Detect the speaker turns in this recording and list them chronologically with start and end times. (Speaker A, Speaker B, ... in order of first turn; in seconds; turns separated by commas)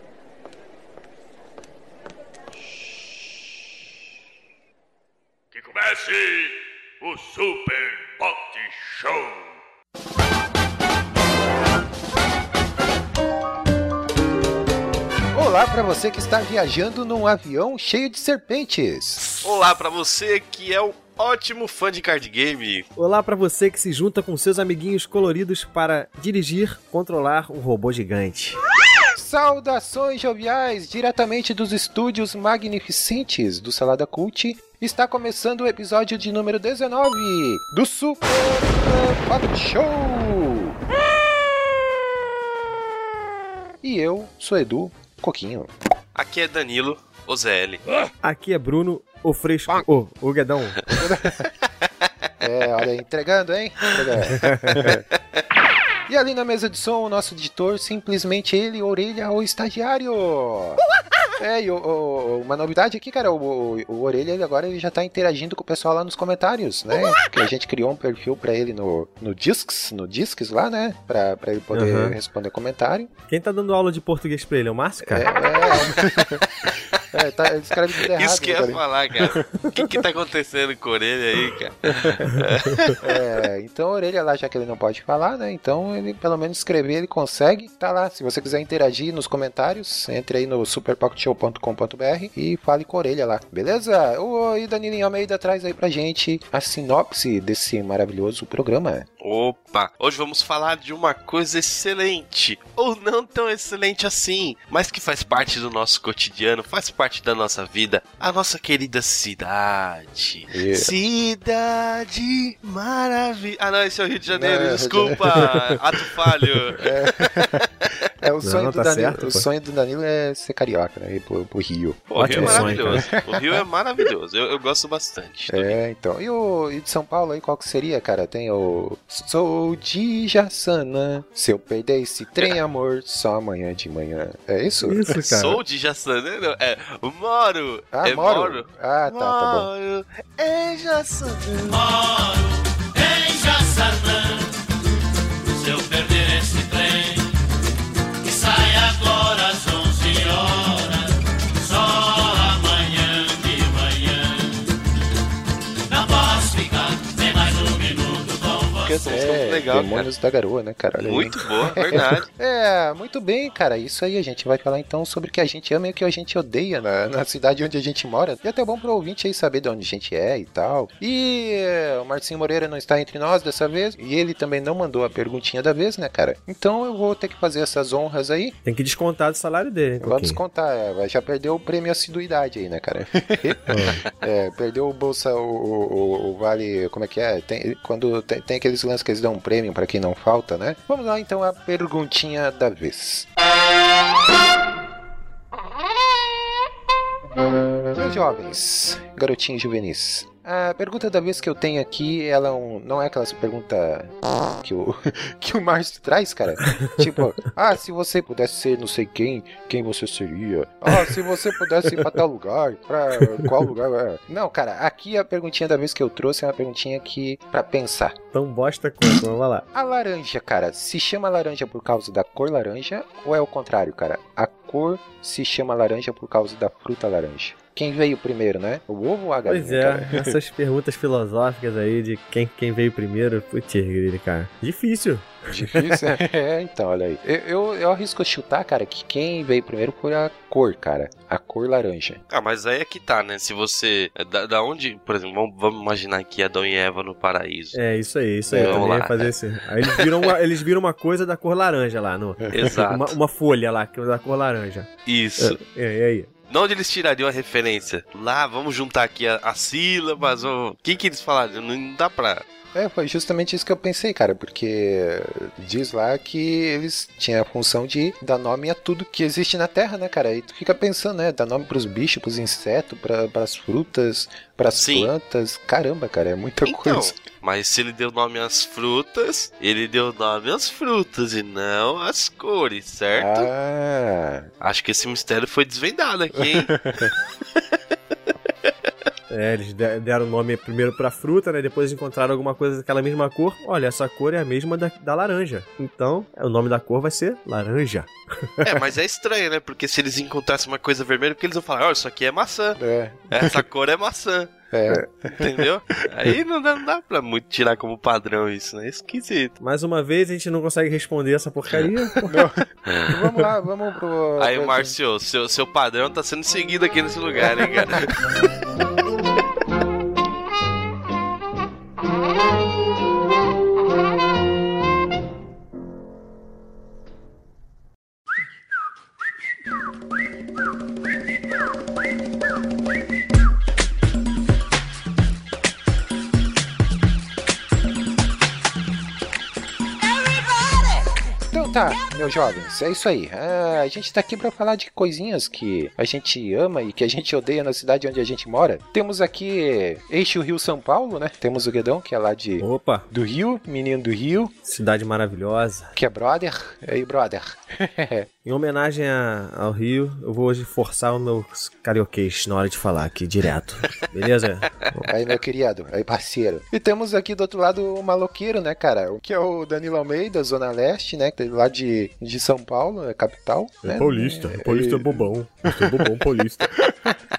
Speaker A: 5.5-9.6, Speaker B: 15.3-19.2, Speaker C: 19.3-22.9, Speaker D: 23.0-28.6, Speaker B: 29.1-40.8, Speaker B: 43.8-45.7, Speaker C: 46.1-47.8, Speaker D: 48.2-51.0, Speaker B: 51.0-51.5, Speaker B: 52.4-55.0, Speaker D: 54.4-54.9, Speaker B: 56.1-60.8, Speaker B: 61.4-73.1, Speaker D: 71.7-72.2, Speaker D: 73.3-75.4, Speaker B: 75.1-76.5, Speaker C: 76.7-77.0, Speaker B: 77.1-79.4, Speaker C: 78.0-83.2, Speaker B: 83.0-99.1, Speaker C: 99.2-118.1, Speaker B: 110.5-110.9, Speaker B: 114.3-115.3, Speaker B: 116.7-123.6, Speaker D: 118.4-119.5, Speaker C: 122.1-125.8, Speaker D: 122.2-123.1, Speaker B: 125.5-135.1, Speaker D: 134.8-135.6, Speaker C: 135.1-142.3, Speaker B: 137.9-139.7, Speaker E: 142.2-144.5, Speaker E: 145.5-147.3, Speaker E: 148.2-154.6, Speaker E: 155.9-158.7, Speaker C: 158.8-160.1, Speaker B: 158.8-178.6, Speaker C: 161.0-162.3, Speaker D: 178.7-180.4, Speaker B: 180.0-193.3, Speaker D: 183.7-184.1, Speaker B: 197.9-218.2, Speaker D: 206.7-206.9, Speaker D: 213.2-213.5, Speaker D: 218.3-219.7, Speaker B: 219.7-230.4, Speaker D: 229.4-236.2, Speaker B: 235.5-242.2, Speaker C: 242.3-247.8, Speaker D: 247.7-256.3, Speaker B: 248.5-248.9, Speaker C: 248.5-250.3, Speaker B: 252.4-252.7, Speaker C: 252.5-253.2, Speaker C: 255.1-255.6, Speaker C: 256.5-262.4, Speaker B: 262.8-277.1, Speaker C: 274.8-275.1, Speaker C: 276.6-283.5, Speaker B: 283.1-284.5, Speaker C: 284.6-287.1, Speaker B: 286.5-287.1, Speaker D: 289.3-298.6, Speaker C: 298.6-304.7, Speaker B: 302.8-303.6, Speaker B: 304.7-305.3, Speaker C: 305.2-309.6, Speaker D: 309.6-312.5, Speaker B: 312.3-314.9, Speaker C: 314.4-318.5, Speaker B: 341.5-354.5, Speaker D: 352.6-353.1, Speaker D: 354.6-355.9, Speaker B: 356.0-358.3, Speaker D: 358.5-365.1, Speaker B: 365.1-376.1, Speaker D: 373.8-376.8, Speaker B: 376.8-377.1